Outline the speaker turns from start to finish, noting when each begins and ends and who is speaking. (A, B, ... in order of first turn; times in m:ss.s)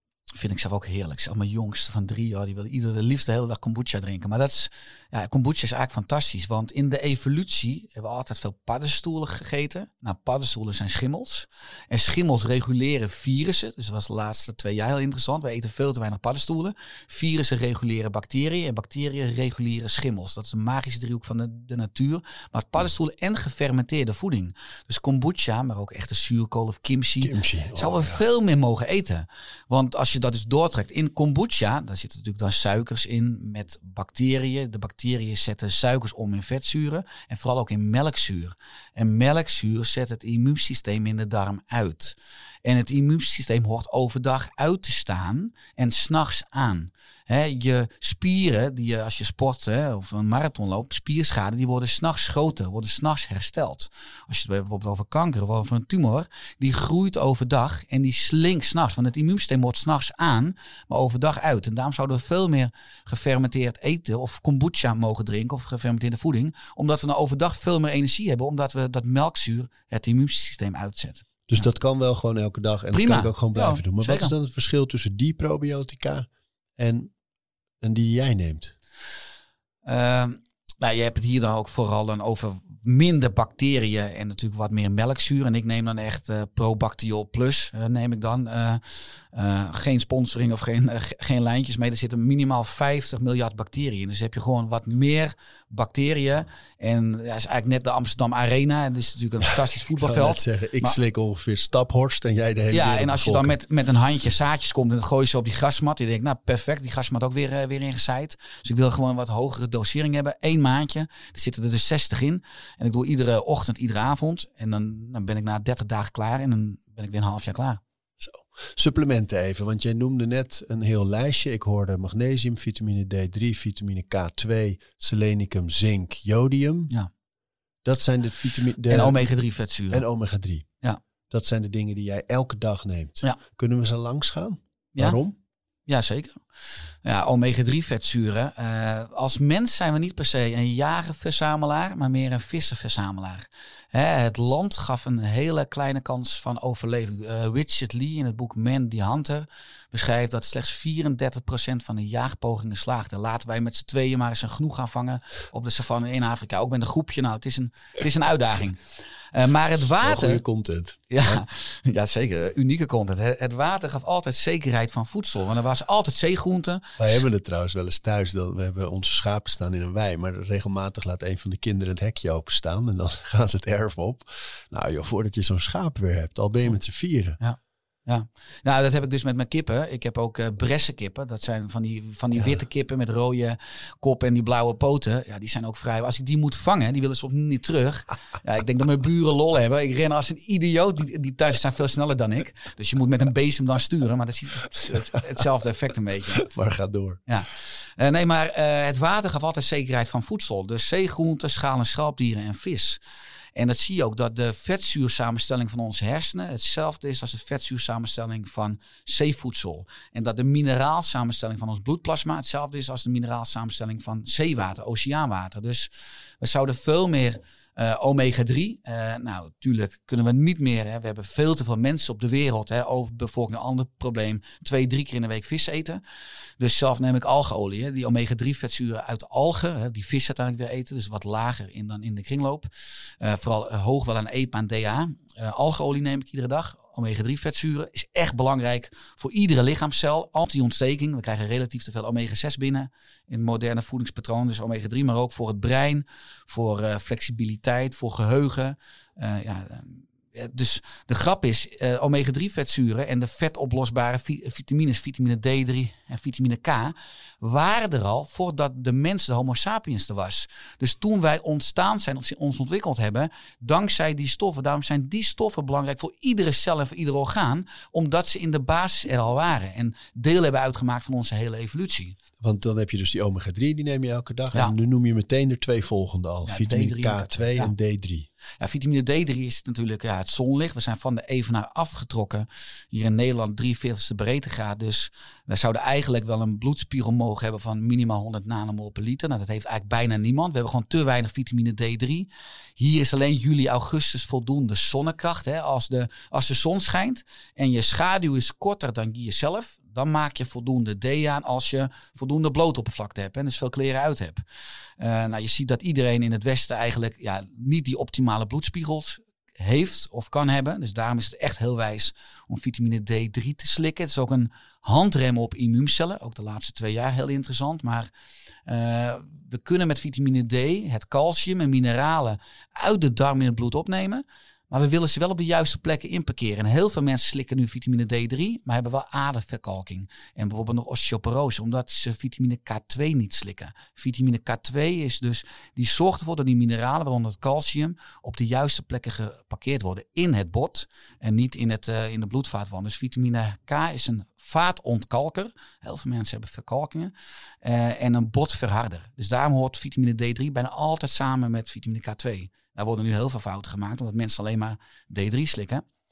0:00.4-1:11.7 A
0:27.2-0:28.2 B
1:11.5-1:17.1 B
1:12.9-1:14.3 A
1:17.8-1:18.8 B
1:19.8-1:41.0 A
1:39.4-1:43.6 B
1:42.7-1:57.8 A
1:58.2-2:06.9 B
2:07.8-2:09.2 B
2:08.9-2:10.1 A
2:09.9-2:10.7 B
2:11.3-2:15.3 B
2:15.0-2:15.2 A
2:15.9-2:16.4 A
2:17.0-2:40.4 A
2:40.0-2:41.4 B
2:41.1-2:47.2 A
2:47.0-2:57.4 B
2:57.4-3:16.5 A
3:16.4-3:17.2 B
3:17.3-3:23.0 A
3:23.6-3:46.0 A
3:46.6-4:32.2 A
4:32.4-4:38.3 B
4:36.5-4:37.7 A
4:38.6-5:04.4 A
5:05.0-5:18.1 A
5:18.7-5:55.8 A